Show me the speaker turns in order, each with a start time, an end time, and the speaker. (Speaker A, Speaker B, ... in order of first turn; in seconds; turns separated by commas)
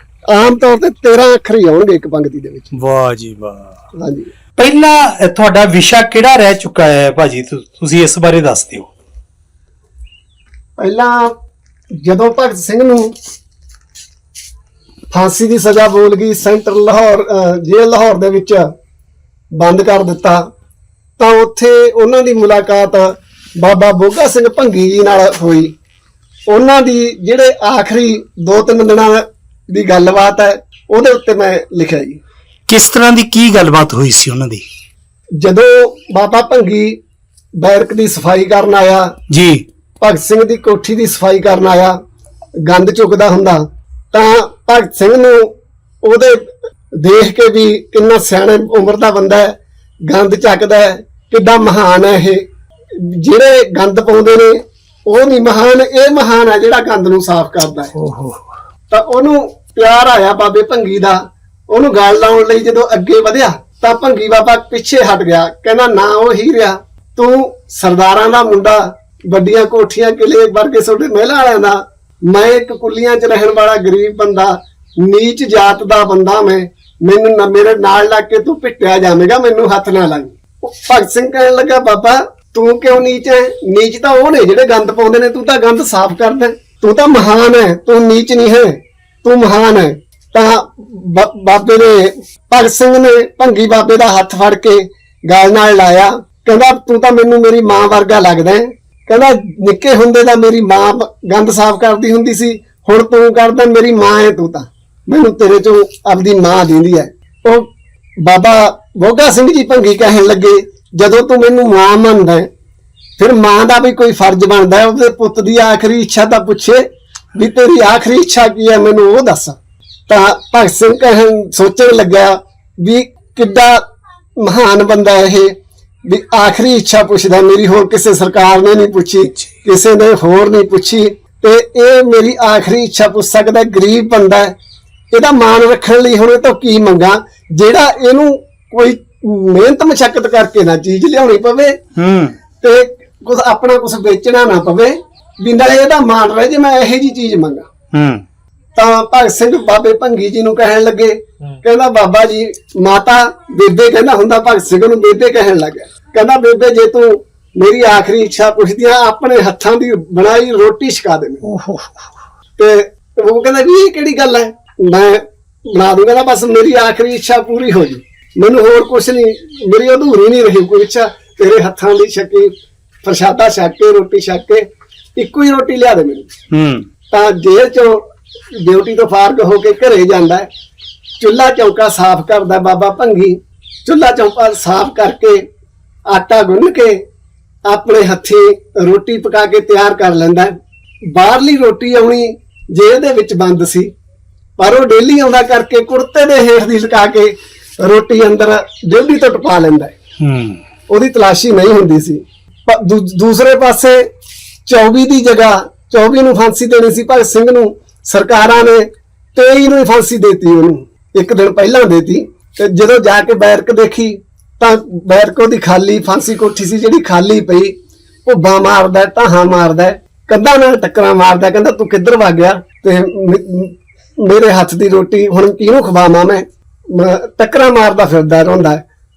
Speaker A: 0.3-2.7, Speaker B: 2.7-3.8, Speaker A: 4.0-4.3, Speaker B: 4.6-8.9, Speaker A: 10.8-11.4, Speaker A: 12.0-13.1, Speaker A: 15.1-18.6, Speaker A: 19.5-20.4, Speaker A: 21.2-25.8, Speaker A: 26.5-32.2, Speaker B: 32.7-34.6, Speaker A: 35.4-37.0, Speaker A: 37.6-39.1, Speaker B: 39.3-39.6, Speaker A: 40.0-42.0, Speaker A: 42.6-52.4, Speaker A: 52.9-57.9, Speaker B: 58.0-58.5, Speaker A: 58.9-112.5, Speaker A: 113.2-119.6, Speaker A: 120.1-123.8, Speaker A: 124.4-125.5, Speaker A: 126.0-134.6, Speaker A: 135.1-141.8, Speaker B: 142.0-142.4, Speaker A: 142.6-147.7, Speaker B: 147.9-148.2, Speaker A: 148.8-161.4, Speaker B: 161.4-162.0, Speaker A: 162.6-176.3, Speaker B: 176.5-176.9, Speaker A: 177.1-180.5, Speaker A: 181.2-185.5, Speaker A: 186.1-187.0, Speaker A: 187.7-190.5, Speaker A: 191.1-193.9, Speaker A: 194.6-199.9, Speaker B: 200.2-200.6, Speaker A: 200.9-204.1, Speaker A: 204.7-217.8, Speaker A: 218.3-228.8